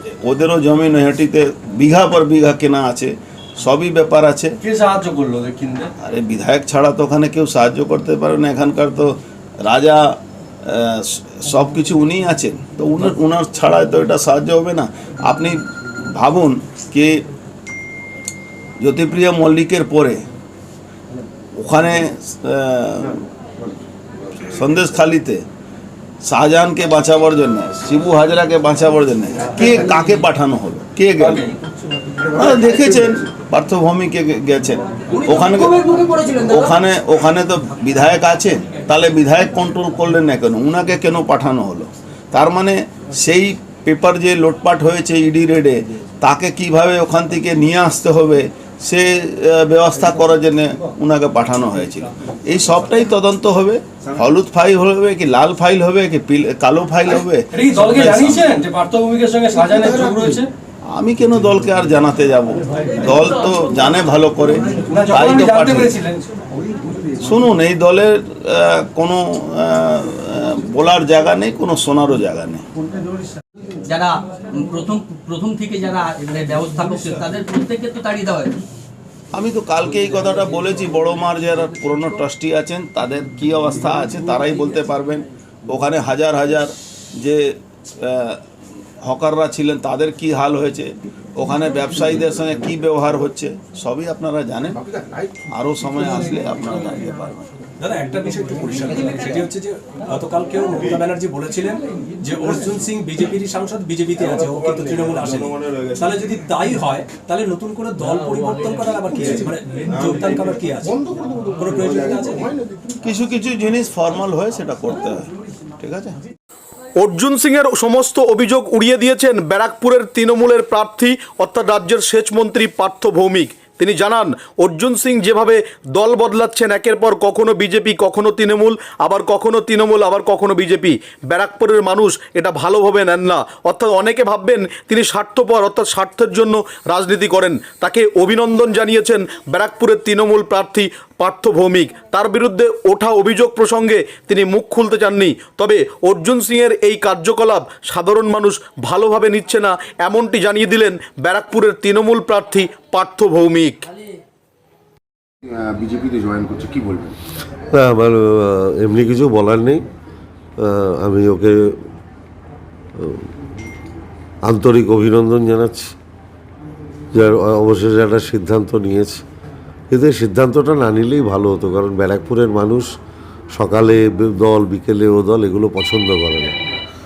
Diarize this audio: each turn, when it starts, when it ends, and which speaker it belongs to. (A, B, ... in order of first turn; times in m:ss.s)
0:00.2-0:04.6 A
0:04.6-0:05.9 B
0:06.0-0:17.2 A
0:18.8-0:20.3 A
0:21.6-0:23.2 A
0:24.4-0:25.4 A
0:26.2-0:31.4 A
0:31.2-0:31.5 B
0:32.3-0:35.9 A
0:35.1-0:36.7 C
0:36.4-0:58.6 A
0:57.5-1:00.5 B
1:00.9-1:05.9 A
1:04.8-1:06.2 B
1:07.2-1:12.7 A
1:13.8-1:18.6 C
1:19.3-1:28.4 A
1:29.0-1:34.8 A
1:34.8-1:35.3 D
1:35.5-1:37.5 A
1:37.8-1:51.0 E
1:49.1-1:49.5 D
1:50.8-1:53.0 D
1:51.6-1:52.5 E
1:53.0-1:56.2 A
1:57.0-2:33.9 F
2:35.4-2:37.2 D
2:37.7-2:39.8 G
2:40.6-2:41.8 G
2:43.0-2:43.3 G
2:44.4-2:45.9 G
2:47.1-2:49.2 G
2:49.9-2:52.9 G
2:53.5-2:56.6 G